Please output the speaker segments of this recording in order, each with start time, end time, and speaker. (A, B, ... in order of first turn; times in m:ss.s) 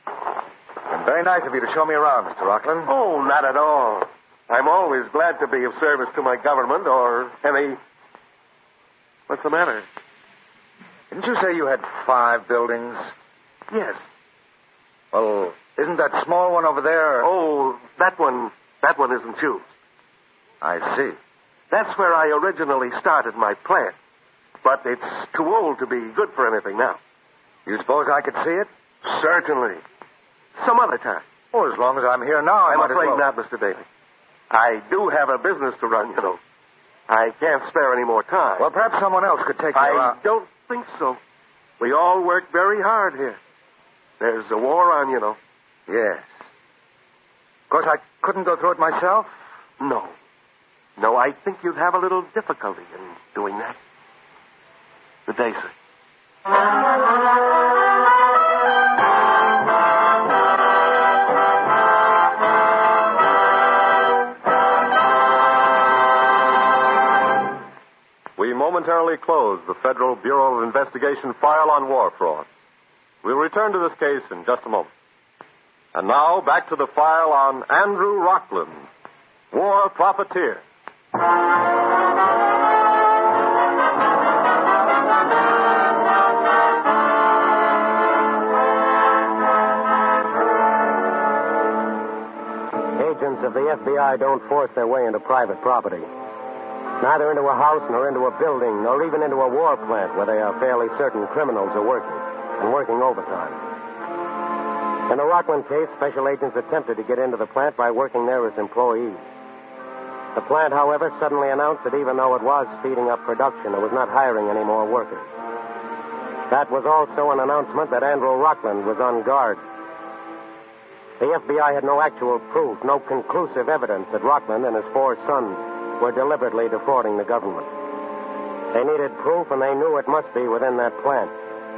0:00.9-0:02.9 A
0:02.9-0:07.8 B
0:09.3-0:09.9 B
0:11.1-0:13.1 A
0:13.7-0:14.0 B
0:15.1-0:17.3 A
0:17.2-0:19.7 B
0:20.6-0:21.2 A
0:21.7-0:23.9 B
0:24.6-0:27.0 B
0:27.7-0:28.7 A
0:29.0-0:29.8 B
0:30.6-0:31.2 B
0:31.5-0:33.3 A
0:32.7-0:33.8 B
0:34.5-0:36.4 B
0:37.1-0:38.7 B
0:38.6-0:40.2 A
0:39.8-0:41.2 B
0:41.8-0:43.4 B
0:44.2-0:45.4 B
0:45.9-0:46.3 A
0:47.7-0:49.3 A
0:49.8-0:50.1 B
0:51.0-0:53.8 B
0:55.3-0:55.7 B
1:08.4-1:12.5 C
1:13.2-1:14.9 C
1:15.9-1:18.8 C
1:19.5-1:20.6 C
1:33.0-1:36.1 D
1:37.0-1:43.6 D
1:45.1-1:49.2 D
1:50.4-1:55.3 D
1:56.5-1:59.6 D
2:01.2-2:07.7 D
2:08.7-2:11.3 D